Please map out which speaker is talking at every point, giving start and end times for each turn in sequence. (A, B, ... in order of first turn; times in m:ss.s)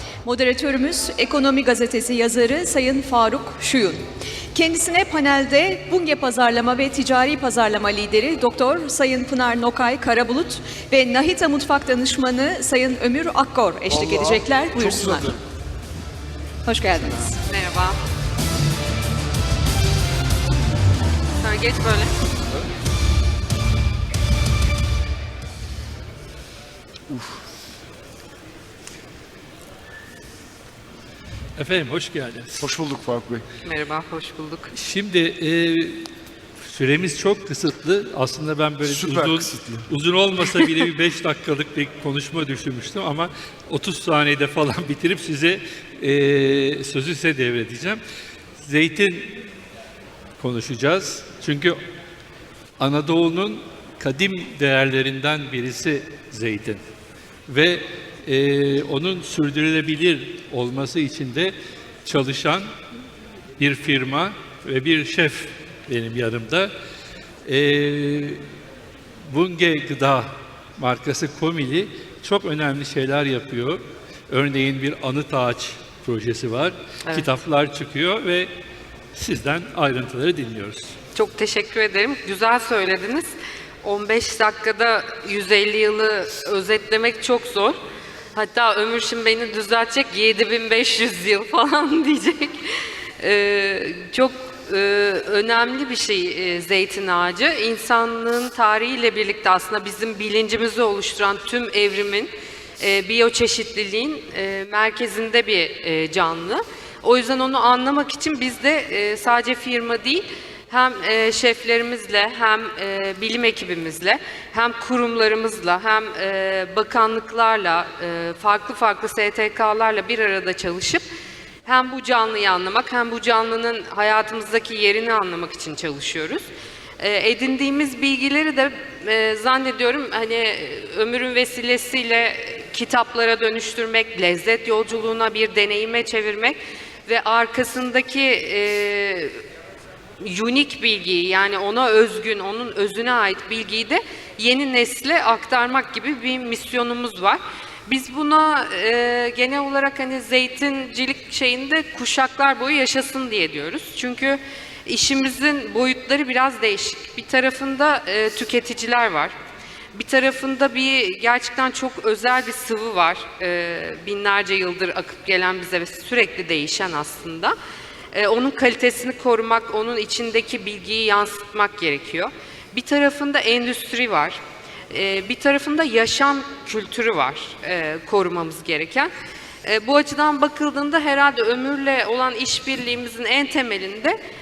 0:00.2-0:04.0 A
0:04.5-0:15.3 A
0:13.9-0:15.4 B
0:16.6-0:17.4 A
0:17.4-0:18.0 C
0:21.4-0:22.2 C
0:27.1-0:27.4 B
0:31.6-0:32.7 D
0:32.6-0:33.4 B
0:33.6-0:34.7 C
0:34.7-0:36.0 D
0:36.7-0:48.0 D
0:38.8-0:39.9 B
0:48.6-0:49.4 D
0:50.4-0:51.8 D
0:52.8-0:56.8 D
0:57.5-1:02.7 D
1:03.6-1:06.7 D
1:07.4-1:08.4 D
1:09.3-1:18.5 D
1:19.1-1:20.9 D
1:21.1-1:23.3 C
1:23.8-1:27.8 C
1:28.3-2:01.0 C
2:01.6-2:06.5 C
2:07.0-2:19.4 C
2:20.2-2:39.3 C
2:39.9-2:47.5 C
2:48.1-2:59.1 C
2:59.6-3:04.2 C